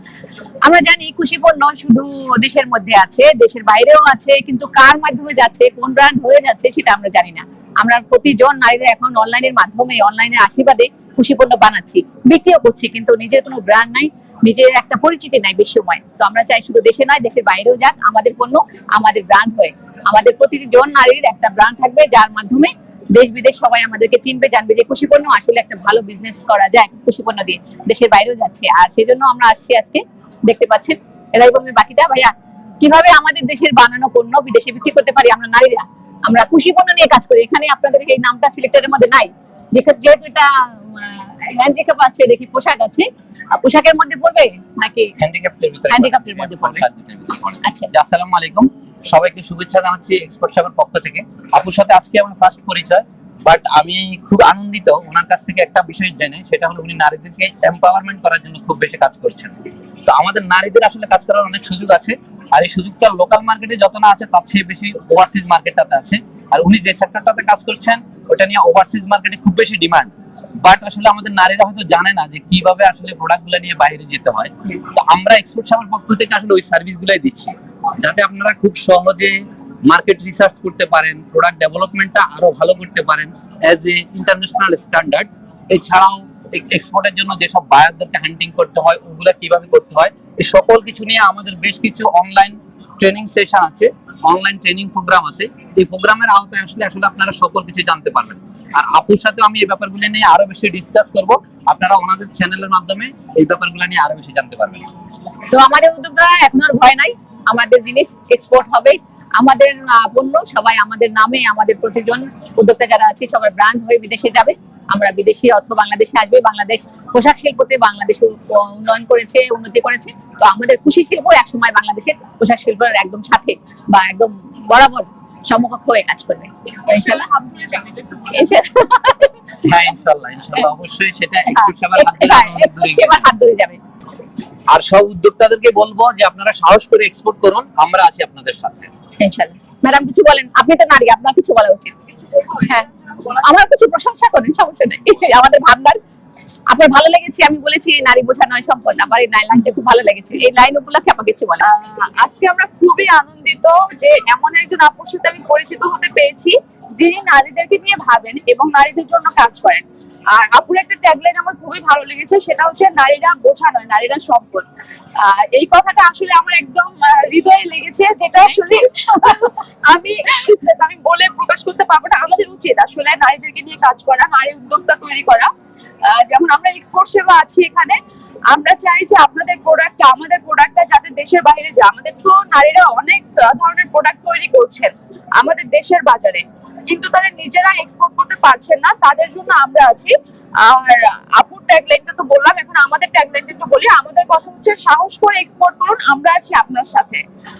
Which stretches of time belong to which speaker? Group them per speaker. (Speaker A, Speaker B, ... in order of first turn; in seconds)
Speaker A: 0.6-45.1, 45.9-46.8, 47.6-47.9, 105.5-127.2, 128.3-129.6, 131.5-133.8, 139.2-141.9, 142.6-146.0, 146.7-151.6
Speaker B: 45.2-59.5, 60.1-104.9, 129.6-133.3, 134.7-138.9
Speaker C: 126.8-128.5, 142.3-143.3, 151.6-164.7, 165.2-175.5, 176.0-178.0, 178.5-197.2